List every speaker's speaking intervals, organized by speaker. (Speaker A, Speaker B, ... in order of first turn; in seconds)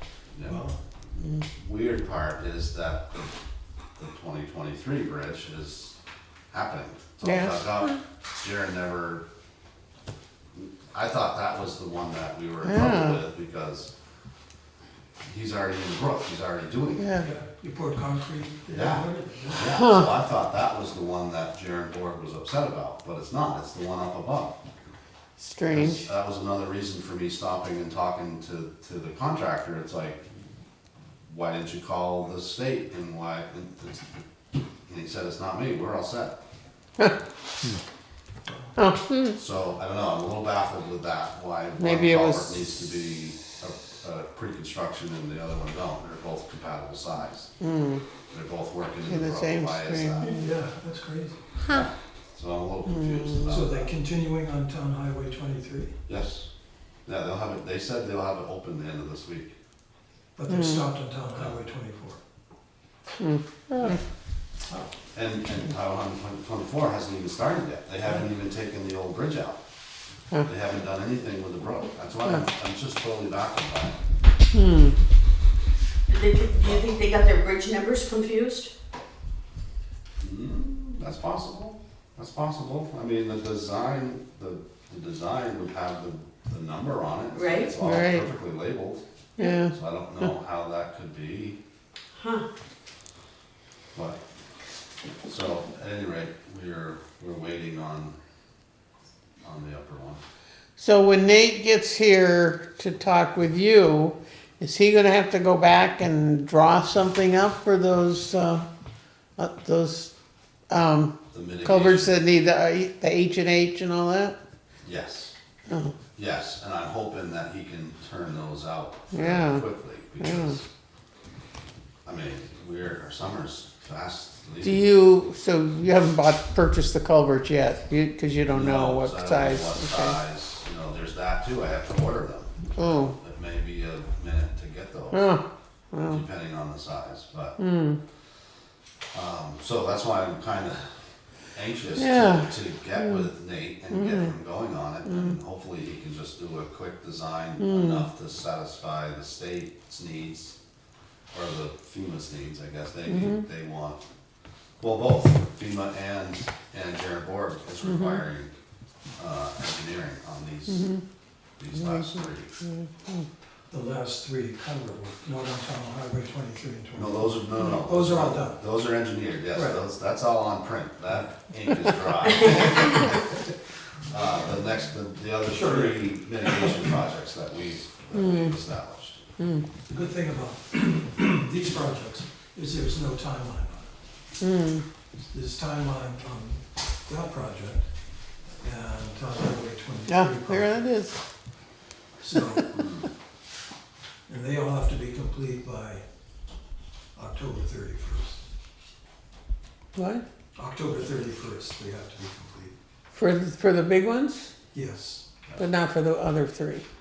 Speaker A: 0.3-0.6, 1.4-3.3, 4.0-6.0, 6.5-9.2, 10.5-13.9, 15.2-17.1, 18.7-24.6, 25.7-30.2, 31.2-34.0, 34.9-36.4, 39.3-47.5, 48.3-50.3, 51.7-53.9, 56.1-56.5, 57.0-59.5, 65.1-69.6, 70.4-74.0, 76.5-76.9, 80.2-91.6, 95.2-98.2, 99.4-100.2, 111.3-112.2, 114.8-115.3, 116.1-120.7, 122.0-124.8, 128.5-135.3, 136.0-137.6, 139.1-140.9, 141.5-150.6, 151.3-154.0, 154.8-158.5, 159.2-160.9, 161.6-162.5, 166.9-173.2, 174.1-179.2
Speaker B: 0.4-0.8, 17.2-19.7, 38.5-38.8, 50.2-51.4, 53.5-55.9, 60.4-62.2, 163.7-168.6, 169.5-169.8, 175.5-176.7, 179.9-183.9, 185.3-187.9, 188.6-190.9, 192.2-192.8, 194.3-196.0, 197.1-198.4, 200.6-202.8, 204.7-205.3
Speaker C: 7.2-7.6, 12.6-13.2, 17.0-17.3, 19.7-20.0, 25.4-26.1, 38.8-39.3, 41.8-42.6, 47.6-48.0, 49.1-50.5, 53.0-53.4, 60.5-60.8, 63.2-64.0, 74.5-74.9, 87.8-88.3, 89.4-89.7, 100.8-108.7, 109.4-110.1, 110.7-114.3, 115.7-116.0, 119.1-120.6, 124.6-130.1, 132.8-133.1, 135.1-136.2, 137.6-138.0, 142.0-143.2, 143.9-144.3, 147.6-148.0, 153.1-153.4, 157.8-158.2, 160.7-161.0, 161.8-163.2, 178.2-178.5, 184.4-184.8, 190.1-191.2, 199.9-200.2, 203.1-204.5, 205.6-206.8
Speaker D: 76.1-78.7, 87.3-87.8, 92.2-92.4